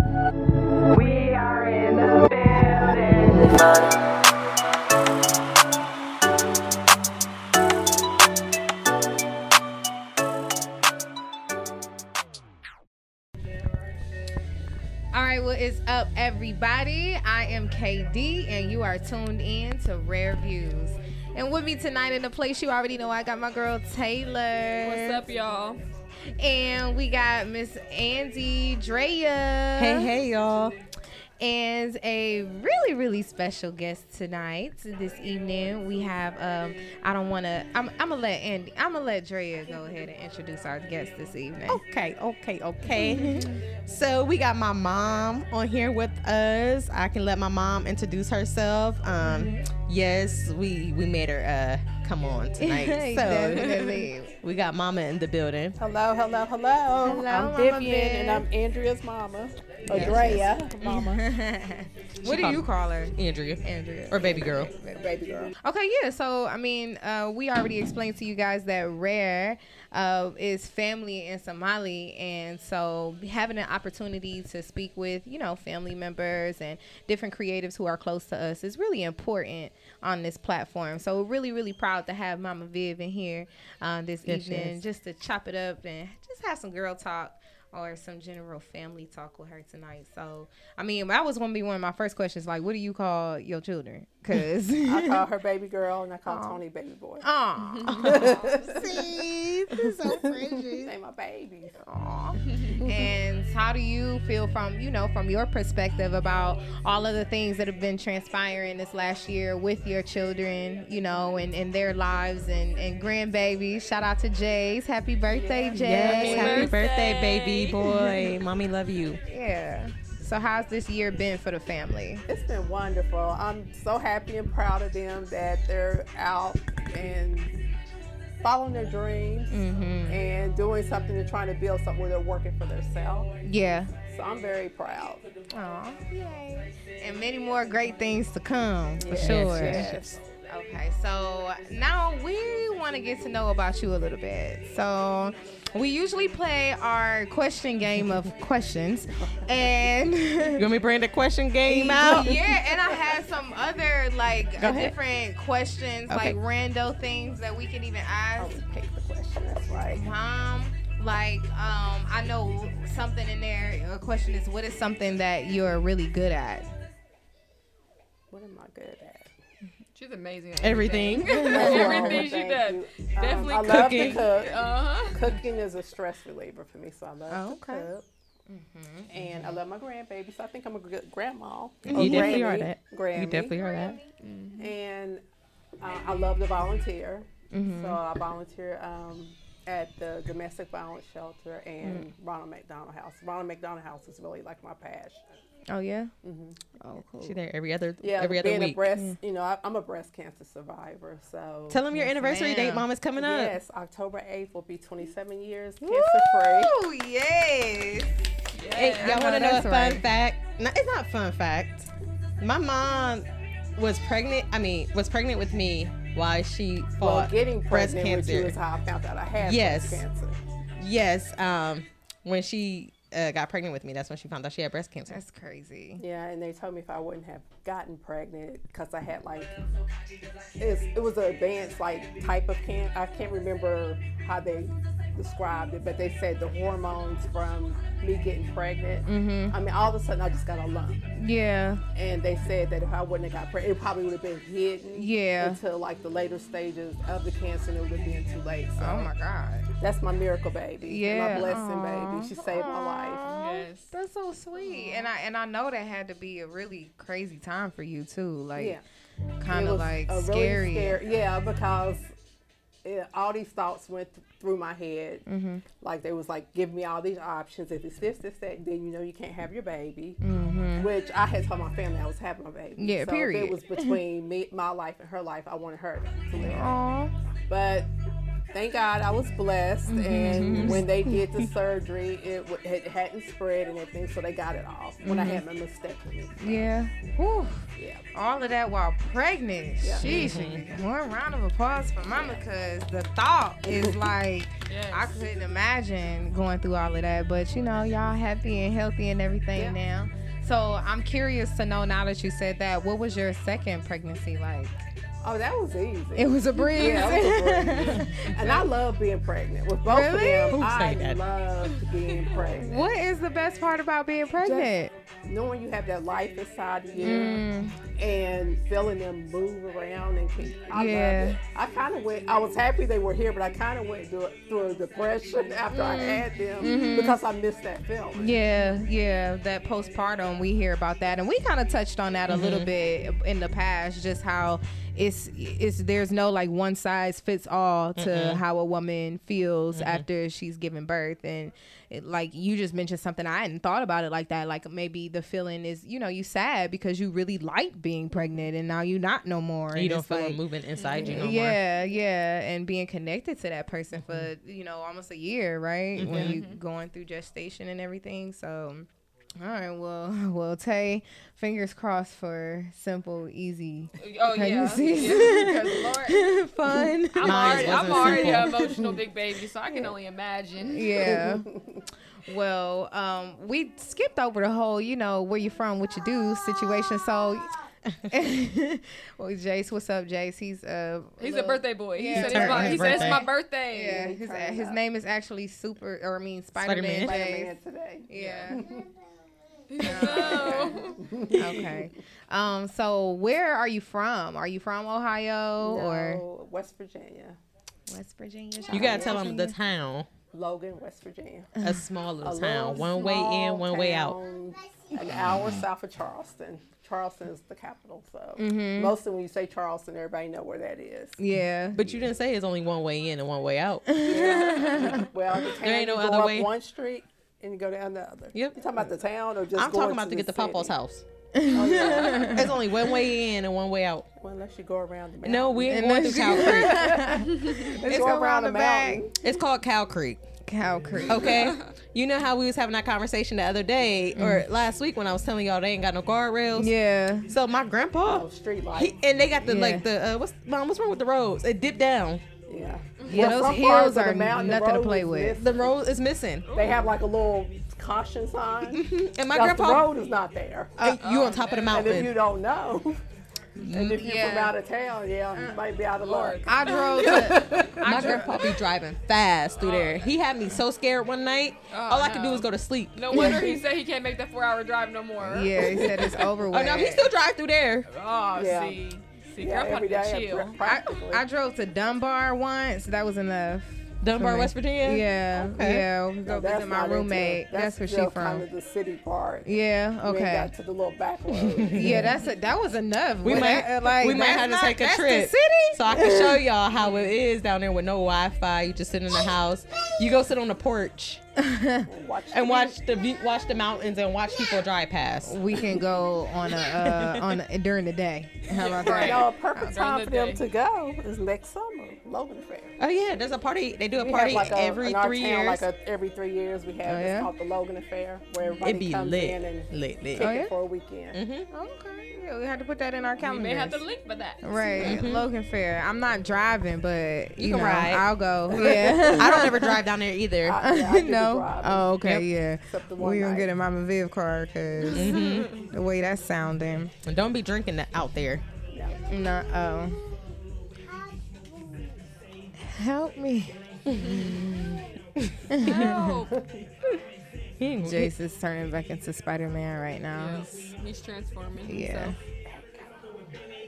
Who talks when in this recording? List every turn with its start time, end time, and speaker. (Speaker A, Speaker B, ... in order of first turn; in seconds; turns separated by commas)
Speaker A: 0.9-3.9, Speaker B: 15.1-25.2, Speaker C: 24.8-25.8, Speaker B: 26.4-30.1, Speaker D: 29.8-30.7, Speaker B: 31.4-41.8, Speaker D: 41.7-53.9, Speaker B: 42.9-43.5, Speaker B: 49.2-49.6, Speaker B: 52.6-54.3, Speaker C: 53.4-54.1, Speaker D: 54.4-55.8, Speaker E: 55.8-61.2, Speaker B: 57.0-58.4, Speaker D: 59.9-60.5, Speaker B: 59.9-64.7, Speaker D: 62.2-64.7, Speaker E: 64.3-65.5, Speaker B: 65.6-95.2, Speaker D: 84.2-84.8, Speaker E: 94.8-97.2, Speaker B: 96.3-96.6, Speaker B: 97.2-100.9, Speaker C: 97.6-98.6, Speaker E: 98.0-99.1, Speaker E: 99.8-101.8, Speaker B: 101.8-116.7, Speaker E: 115.3-116.4, Speaker D: 115.7-119.2, Speaker C: 116.0-117.9, Speaker B: 117.9-118.3, Speaker B: 119.3-122.2, Speaker E: 122.3-127.5, Speaker E: 128.4-133.3, Speaker B: 129.5-130.2, Speaker B: 133.4-133.9, Speaker E: 134.1-135.2, Speaker B: 135.5-150.7, Speaker E: 139.0-140.2, Speaker D: 139.2-140.1, Speaker D: 150.5-152.4, Speaker B: 151.7-158.6, Speaker D: 154.6-154.9, Speaker E: 156.1-156.4, Speaker E: 158.4-160.0, Speaker B: 159.9-166.7, Speaker E: 168.3-169.3, Speaker C: 169.9-175.2, Speaker D: 170.6-171.9, Speaker B: 171.3-172.2, Speaker E: 171.4-178.0, Speaker D: 173.6-174.2, Speaker B: 177.3-177.9, Speaker B: 178.5-179.4, Speaker E: 179.1-183.6, Speaker B: 181.9-182.5, Speaker D: 181.9-184.0, Speaker C: 184.2-184.7, Speaker E: 184.6-185.2, Speaker E: 185.8-195.2, Speaker B: 187.5-188.0, Speaker B: 191.8-192.1, Speaker B: 195.7-196.1, Speaker E: 196.2-196.6, Speaker B: 196.8-197.3, Speaker D: 197.2-198.8, Speaker E: 198.0-202.0, Speaker D: 201.7-203.6, Speaker B: 201.9-202.9, Speaker E: 203.2-206.8, Speaker B: 205.8-208.2, Speaker C: 208.5-209.4, Speaker D: 208.7-211.9, Speaker B: 208.9-210.0, Speaker D: 212.4-218.6, Speaker E: 217.0-220.4, Speaker D: 219.4-220.0, Speaker D: 220.8-225.2, Speaker B: 225.1-226.0, Speaker E: 226.0-229.5, Speaker E: 230.6-241.1, Speaker B: 239.1-239.6, Speaker B: 241.2-241.8, Speaker E: 241.9-249.1, Speaker B: 244.9-245.6, Speaker B: 248.8-249.7, Speaker E: 249.8-253.3, Speaker B: 250.8-258.8, Speaker C: 253.3-253.9, Speaker C: 254.6-255.0, Speaker E: 258.6-258.8, Speaker B: 259.4-261.0, Speaker E: 259.5-262.1, Speaker E: 262.8-265.2, Speaker B: 265.3-265.6, Speaker E: 265.8-270.2, Speaker B: 270.2-270.9, Speaker E: 270.8-276.8, Speaker B: 272.8-274.0, Speaker B: 276.4-277.1, Speaker E: 277.5-277.9, Speaker E: 278.5-286.6, Speaker B: 279.9-281.2, Speaker D: 280.4-280.9, Speaker B: 285.0-285.4, Speaker B: 286.4-304.7, Speaker E: 287.8-288.0, Speaker E: 289.8-290.1, Speaker D: 290.0-290.7, Speaker E: 293.7-293.9, Speaker C: 294.7-295.1, Speaker E: 305.2-312.8, Speaker B: 306.1-308.5, Speaker B: 309.8-310.6, Speaker D: 310.5-311.2, Speaker C: 312.1-312.4, Speaker B: 312.6-314.9, Speaker E: 314.4-314.7, Speaker E: 315.2-328.3, Speaker B: 317.0-317.8, Speaker B: 320.7-321.4, Speaker B: 325.7-327.2, Speaker B: 328.1-350.4, Speaker D: 332.3-332.7, Speaker D: 337.9-338.4, Speaker D: 339.7-340.0, Speaker D: 349.7-351.6, Speaker C: 350.8-351.3, Speaker B: 351.0-358.9, Speaker D: 356.0-356.4, Speaker C: 356.1-356.6, Speaker B: 359.4-368.7, Speaker C: 364.0-366.3, Speaker C: 367.1-371.2, Speaker D: 367.2-368.6, Speaker B: 370.7-371.5, Speaker E: 371.0-371.8, Speaker B: 372.2-377.5, Speaker B: 378.1-387.5, Speaker C: 381.2-384.1, Speaker D: 382.1-383.2, Speaker E: 383.8-384.8, Speaker D: 386.6-387.1, Speaker E: 387.0-388.9, Speaker B: 388.1-388.7, Speaker C: 388.1-388.5, Speaker C: 389.7-391.0, Speaker B: 389.8-396.2, Speaker E: 390.0-391.8, Speaker E: 395.6-397.4, Speaker B: 397.9-399.5, Speaker D: 398.7-400.1, Speaker E: 400.3-401.6, Speaker B: 401.6-401.9, Speaker D: 401.6-404.2, Speaker E: 402.2-411.2, Speaker B: 408.4-408.9, Speaker B: 411.2-412.0, Speaker D: 411.7-414.4, Speaker B: 413.9-415.1, Speaker E: 414.0-420.7, Speaker D: 415.6-416.5, Speaker D: 418.3-418.6, Speaker D: 419.5-421.0, Speaker B: 421.3-422.5, Speaker E: 421.5-422.4, Speaker C: 421.6-422.4, Speaker D: 422.2-424.1, Speaker E: 424.2-429.1, Speaker D: 425.2-426.9, Speaker B: 425.6-429.0, Speaker C: 427.3-427.6, Speaker D: 429.2-430.2, Speaker B: 430.4-431.5, Speaker C: 431.1-431.6, Speaker D: 431.1-436.7, Speaker B: 434.1-434.4, Speaker B: 436.5-437.3, Speaker D: 437.3-442.2, Speaker E: 438.0-439.0, Speaker B: 439.4-439.9, Speaker E: 442.5-445.8, Speaker C: 443.0-443.4, Speaker B: 443.1-445.4, Speaker D: 445.4-446.5, Speaker C: 446.4-446.9, Speaker E: 446.5-450.8, Speaker D: 448.8-449.9, Speaker D: 450.8-452.1, Speaker C: 450.8-452.1, Speaker E: 451.7-453.0, Speaker E: 453.7-457.8, Speaker B: 453.7-454.6, Speaker C: 456.0-458.4, Speaker B: 456.4-458.3, Speaker D: 457.8-463.5, Speaker C: 459.6-460.1, Speaker C: 461.7-466.4, Speaker B: 463.1-463.6, Speaker B: 465.2-467.1, Speaker D: 466.5-467.9, Speaker C: 467.9-470.6, Speaker E: 468.3-468.8, Speaker E: 469.4-471.2, Speaker B: 470.6-478.4, Speaker D: 474.0-475.9, Speaker E: 476.2-479.5, Speaker B: 479.4-480.5, Speaker E: 480.0-482.1, Speaker D: 481.3-482.1, Speaker B: 481.7-486.4, Speaker D: 483.2-491.2, Speaker C: 486.8-487.1, Speaker B: 491.4-491.9, Speaker E: 491.9-492.8, Speaker D: 492.3-495.8, Speaker B: 495.2-499.7, Speaker D: 496.4-497.4, Speaker C: 498.5-500.4, Speaker E: 498.8-502.8, Speaker D: 498.9-499.2, Speaker D: 502.8-505.6, Speaker E: 503.9-511.2, Speaker B: 506.9-507.3, Speaker C: 508.4-508.7, Speaker D: 508.6-510.3, Speaker B: 510.2-510.5, Speaker D: 511.1-511.5, Speaker B: 511.5-513.8, Speaker C: 513.2-515.0, Speaker B: 514.4-519.8, Speaker D: 514.8-515.2, Speaker D: 517.4-518.0, Speaker E: 518.5-519.5, Speaker D: 518.6-520.6, Speaker E: 520.4-521.9, Speaker B: 520.6-526.9, Speaker E: 522.6-523.5, Speaker C: 524.9-525.7, Speaker D: 524.9-525.5, Speaker D: 527.0-528.4, Speaker E: 528.7-529.0, Speaker B: 529.1-530.0, Speaker B: 532.6-534.5, Speaker D: 533.9-535.8, Speaker C: 534.0-534.3, Speaker B: 535.5-536.2, Speaker C: 535.6-536.3, Speaker E: 536.3-536.6, Speaker D: 537.6-538.1, Speaker B: 537.8-540.5, Speaker C: 540.1-542.1, Speaker B: 541.6-542.2, Speaker E: 542.4-543.2